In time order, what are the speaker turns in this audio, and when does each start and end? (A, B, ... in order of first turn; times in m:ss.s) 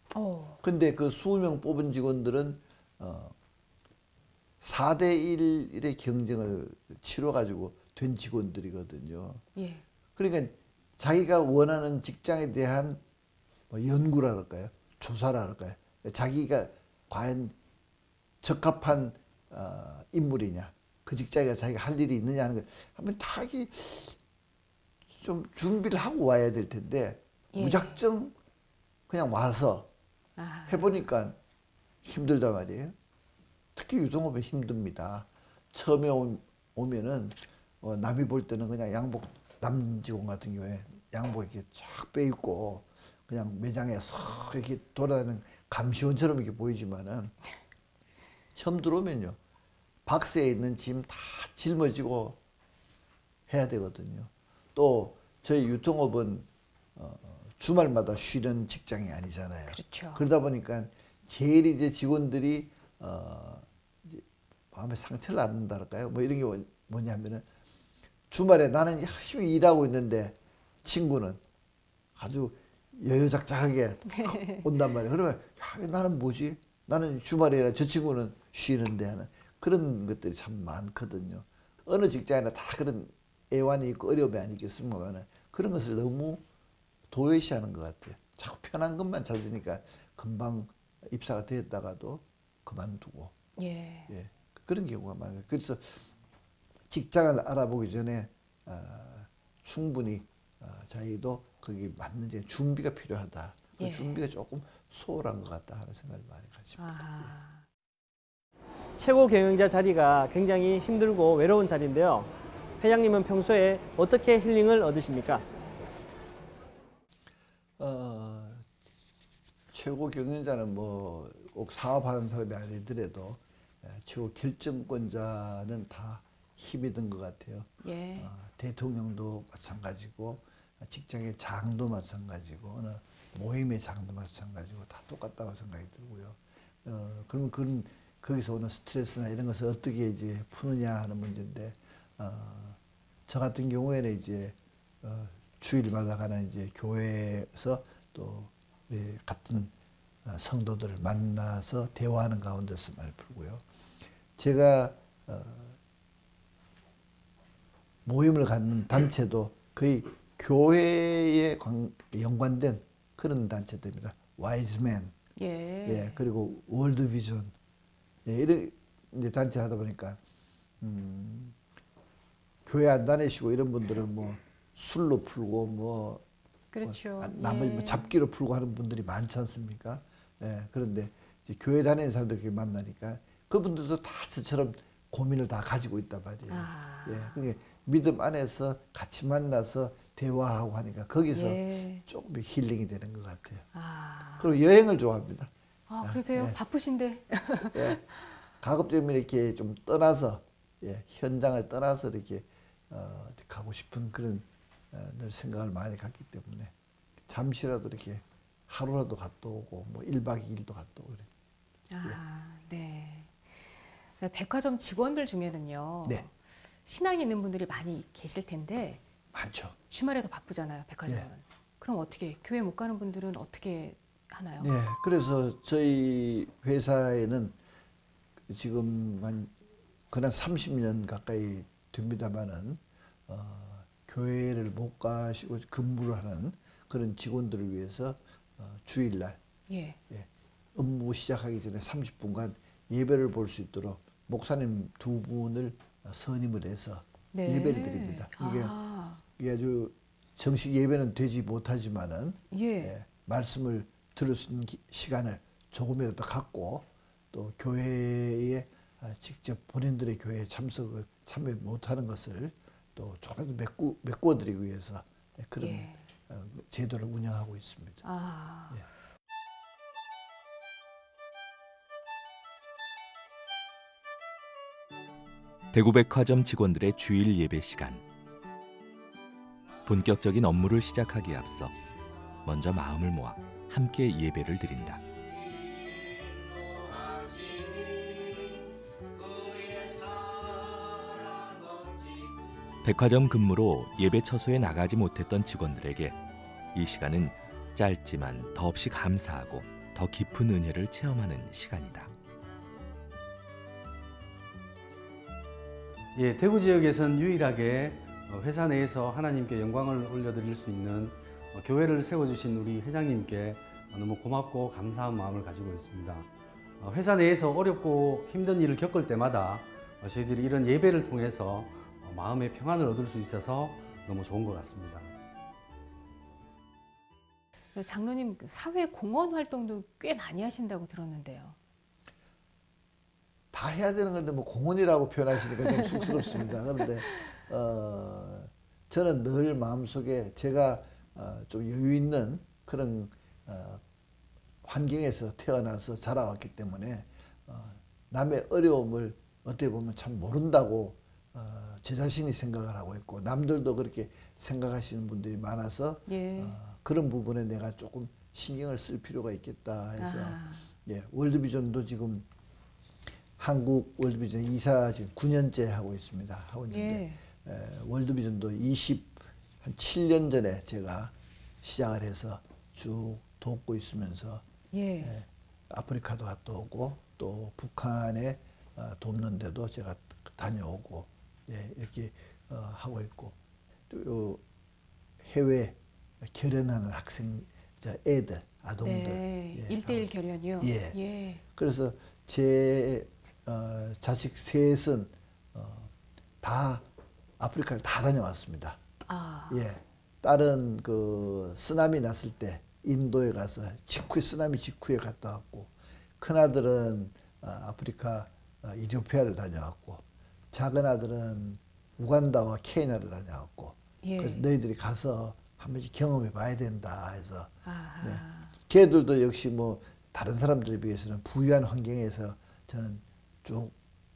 0:00.1-0:00.6 A
0:00.6-0:03.4 B
0:04.6-0:09.4 B
0:09.5-0:09.8 A
0:10.2-0:13.0 B
0:13.7-0:17.5 B
0:18.4-0:24.2 B
0:25.1-0:28.3 B
0:27.5-0:28.0 A
0:29.1-0:29.9 B
0:30.4-0:31.0 A
0:30.7-0:31.4 B
0:32.0-0:32.9 B
0:33.8-0:47.3 B
0:48.5-0:49.4 B
0:50.0-0:52.4 B
0:53.5-1:07.4 B
0:59.7-1:00.2 A
1:08.3-1:11.4 B
1:12.2-1:26.4 B
1:14.1-1:14.7 A
1:27.1-1:33.3 B
1:33.6-1:34.1 A
1:34.1-1:36.0 B
1:36.9-1:47.3 B
1:43.8-1:44.2 A
1:46.8-1:47.6 A
1:49.0-1:55.4 C
1:57.8-1:58.6 B
1:59.7-2:29.7 B
2:07.8-2:08.3 A
2:30.2-2:33.6 B
2:34.4-2:35.8 B
2:38.0-2:45.1 B
2:45.4-2:46.2 A
2:45.8-2:47.5 B
2:48.2-2:50.2 B
2:50.8-2:51.6 B
2:52.6-2:56.2 B
2:56.7-2:58.1 A
2:56.8-3:13.6 B
3:06.5-3:07.4 A
3:11.3-3:12.0 A
3:13.7-3:14.5 A
3:14.4-3:16.6 B
3:15.9-3:18.3 A
3:17.7-3:18.0 B
3:18.6-3:26.7 B
3:27.3-3:31.3 B
3:31.9-3:33.6 A
3:34.2-3:36.3 A
3:36.8-3:39.0 A
3:39.3-3:39.8 B
3:39.9-3:44.7 A
3:44.6-3:47.5 B
3:48.5-3:49.5 B
3:50.1-3:59.4 B
3:59.7-4:00.0 A
4:00.1-4:08.7 B
4:07.3-4:09.2 A
4:09.4-4:28.0 B
4:12.5-4:12.9 A
4:25.6-4:26.0 A
4:28.0-4:28.8 A
4:35.7-4:38.0 D
4:39.8-4:41.8 D
4:42.4-4:45.0 D
4:52.8-4:56.2 D
4:56.7-5:02.1 D
5:06.1-5:16.3 E
5:16.8-5:25.1 E
5:27.7-5:31.6 A
5:33.5-5:43.8 B
5:44.6-6:02.3 B
5:56.1-5:56.6 A
6:00.0-6:00.7 A
6:03.4-6:14.4 B
6:06.7-6:07.2 A
6:14.7-6:15.1 A
6:15.0-6:23.4 B
6:23.9-6:24.4 B
6:25.2-6:30.1 B
6:28.8-6:31.4 A
6:30.6-6:31.0 B
6:31.5-6:36.8 B
6:37.4-6:38.8 B
6:39.0-6:39.6 A
6:39.5-7:03.7 B
6:54.0-6:54.4 A
6:57.6-6:58.5 A